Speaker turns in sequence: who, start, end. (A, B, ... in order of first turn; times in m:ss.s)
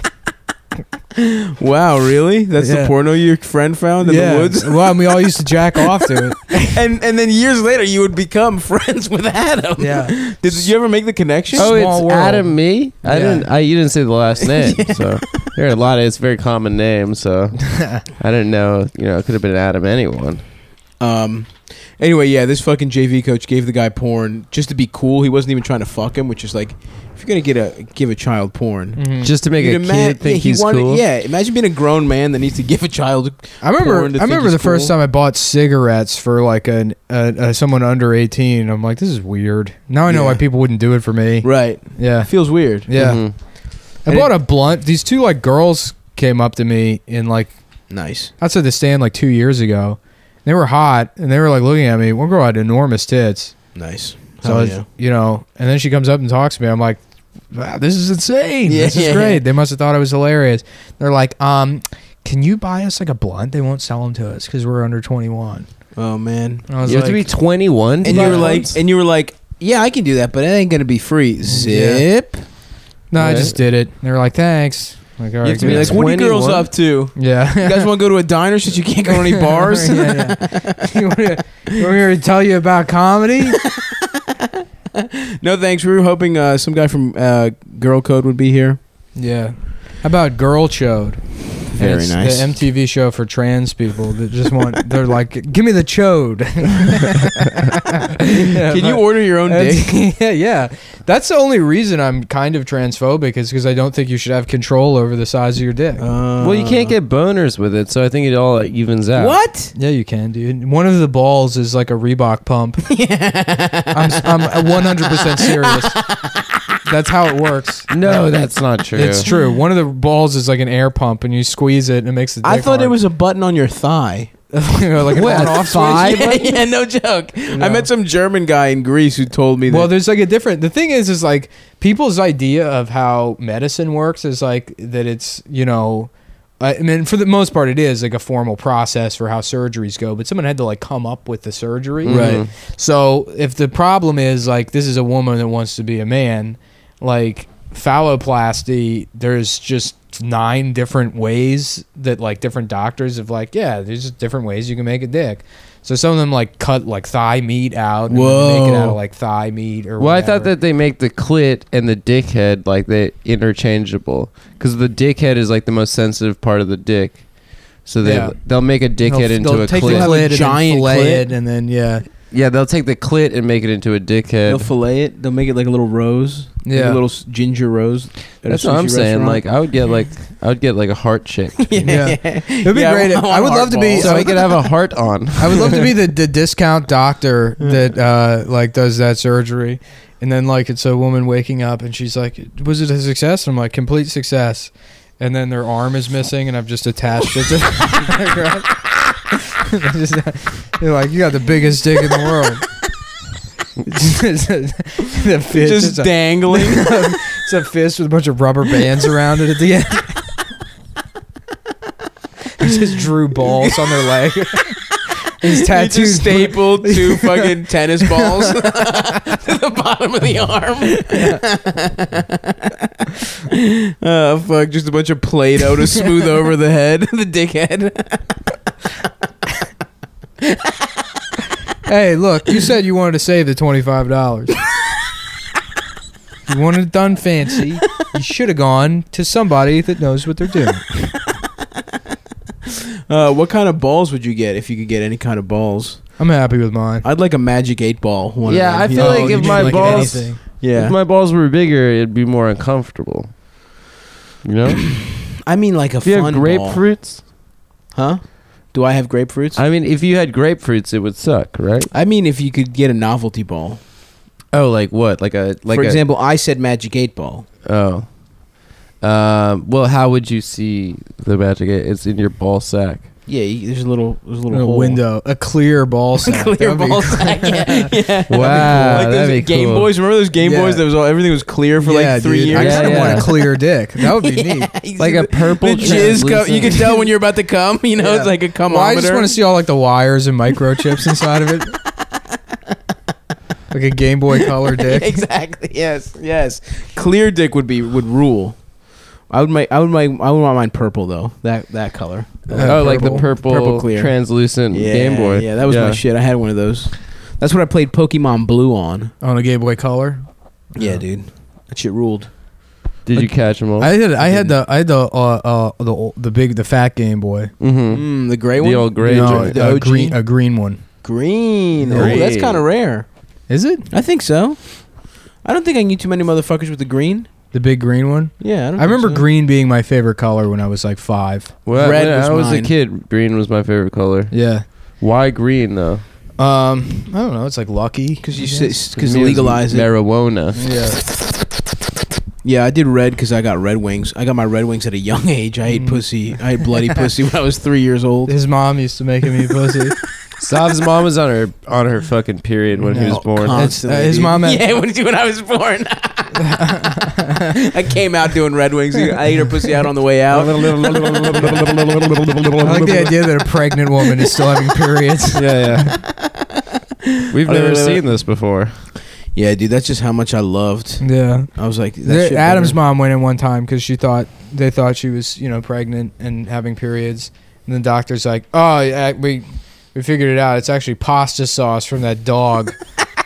0:01.2-0:05.0 A
0:02.6-0:02.9 B
0:04.0-0:06.8 B
0:06.6-0:11.7 A
0:09.8-0:10.7 B
0:11.5-0:13.5 B
0:11.6-0:20.4 C
0:14.5-0:15.5 A
0:17.7-0:18.0 B
0:21.0-0:34.9 A
0:29.0-0:29.3 B
0:29.2-0:31.0 C
0:33.6-0:43.2 B
0:40.0-0:40.4 A
0:41.4-0:42.9 A
0:42.9-0:43.3 C
0:44.0-0:47.5 B
0:47.9-0:48.3 A
0:48.4-0:53.6 B
0:53.7-0:54.8 A
0:54.4-0:57.0 B
0:57.5-1:05.7 B
0:58.7-0:59.4 A
1:06.0-1:06.6 A
1:06.7-1:07.3 B
1:06.8-1:08.7 C
1:08.0-1:12.4 A
1:08.0-1:08.7 B
1:11.5-1:12.1 B
1:13.1-1:16.0 B
1:13.2-1:13.5 C
1:15.4-1:16.7 C
1:15.5-1:20.9 A
1:17.2-1:17.9 B
1:19.1-1:23.6 B
1:25.0-1:28.8 A
1:29.2-1:46.0 B
1:31.7-1:32.5 A
1:38.3-1:39.9 A
1:46.0-1:46.9 A
1:46.4-1:49.4 C
1:49.1-1:49.7 A
1:49.7-1:52.8 B
1:52.9-1:56.4 A
1:53.9-1:56.0 B
1:56.8-1:58.3 B
1:57.9-1:59.3 C
1:58.9-2:03.0 B
2:02.4-2:04.3 A
2:04.5-2:06.4 B
2:05.1-2:09.9 A
2:05.1-2:06.6 C
2:07.5-2:07.9 B
2:09.7-2:40.5 B
2:22.0-2:22.5 C
2:22.0-2:22.4 A
2:38.1-2:39.0 A
2:40.0-2:47.2 C
2:47.8-2:50.1 C
2:48.0-2:48.4 B
2:49.0-2:52.0 B
2:49.8-2:51.3 A
2:52.3-2:54.6 C
2:54.4-2:59.4 A
2:56.6-2:57.0 B
2:58.5-3:01.9 C
3:01.6-3:04.6 A
3:01.8-3:04.5 B
3:04.0-3:05.9 C
3:05.4-3:22.6 B
3:23.8-3:30.3 B
3:25.5-3:27.0 A
3:32.6-3:38.6 B
3:35.5-3:48.3 A
3:41.1-3:41.4 B
3:51.8-3:54.6 B
3:56.5-4:01.1 B
4:03.1-4:06.1 A
4:06.2-4:07.0 B
4:07.0-4:10.9 A
4:08.4-4:13.3 C
4:08.9-4:10.4 B
4:14.4-4:15.1 C
4:15.4-4:16.8 A
4:16.0-4:17.2 C
4:17.9-4:19.6 A
4:19.6-4:21.9 C
4:21.9-4:23.8 A
4:24.5-4:26.0 C
4:25.7-4:27.4 A
4:27.6-4:28.1 C
4:29.0-4:33.1 C
4:33.3-4:35.0 A
4:34.5-4:39.1 B
4:36.2-4:43.4 A
4:38.3-4:39.9 C
4:40.4-4:40.8 B
4:41.8-4:44.7 B
4:42.5-4:43.3 C
4:44.1-4:49.3 A
4:45.0-4:47.0 C
4:45.8-4:46.2 B
4:48.0-4:51.8 B
4:53.7-4:55.2 B
4:54.6-4:58.6 A
4:59.3-5:04.1 A
5:02.5-5:03.3 B
5:02.6-5:06.0 C
5:04.7-5:09.1 A
5:09.2-5:11.0 B
5:10.8-5:12.3 A
5:13.0-5:13.9 C
5:13.1-5:17.5 B
5:14.2-5:14.5 A
5:17.6-5:19.6 C
5:17.9-5:20.2 A
5:19.0-5:20.8 B
5:21.0-5:23.1 A
5:21.9-5:22.2 B
5:21.9-5:22.6 C
5:23.5-5:23.9 B
5:23.9-5:27.3 A
5:27.5-5:31.5 B
5:28.4-5:29.2 A
5:31.6-5:34.4 C
5:31.7-5:32.7 A
5:34.3-5:34.6 B
5:35.0-5:36.0 C
5:36.4-5:38.7 B
5:38.2-5:39.9 A
5:39.0-5:40.6 C
5:40.6-5:41.0 B
5:42.4-5:48.3 A
5:45.7-5:46.0 B
5:48.3-5:49.9 B
5:50.4-5:53.7 C
5:52.9-5:54.6 B
5:53.0-5:56.6 A
5:56.4-5:57.6 B
5:57.5-6:01.8 A
6:00.3-6:03.1 C
6:02.6-6:06.0 B
6:05.3-6:05.9 C
6:05.9-6:06.4 A
6:07.1-6:08.0 A
6:07.3-6:08.8 C
6:09.3-6:12.8 A
6:11.0-6:11.5 B
6:12.0-6:22.8 B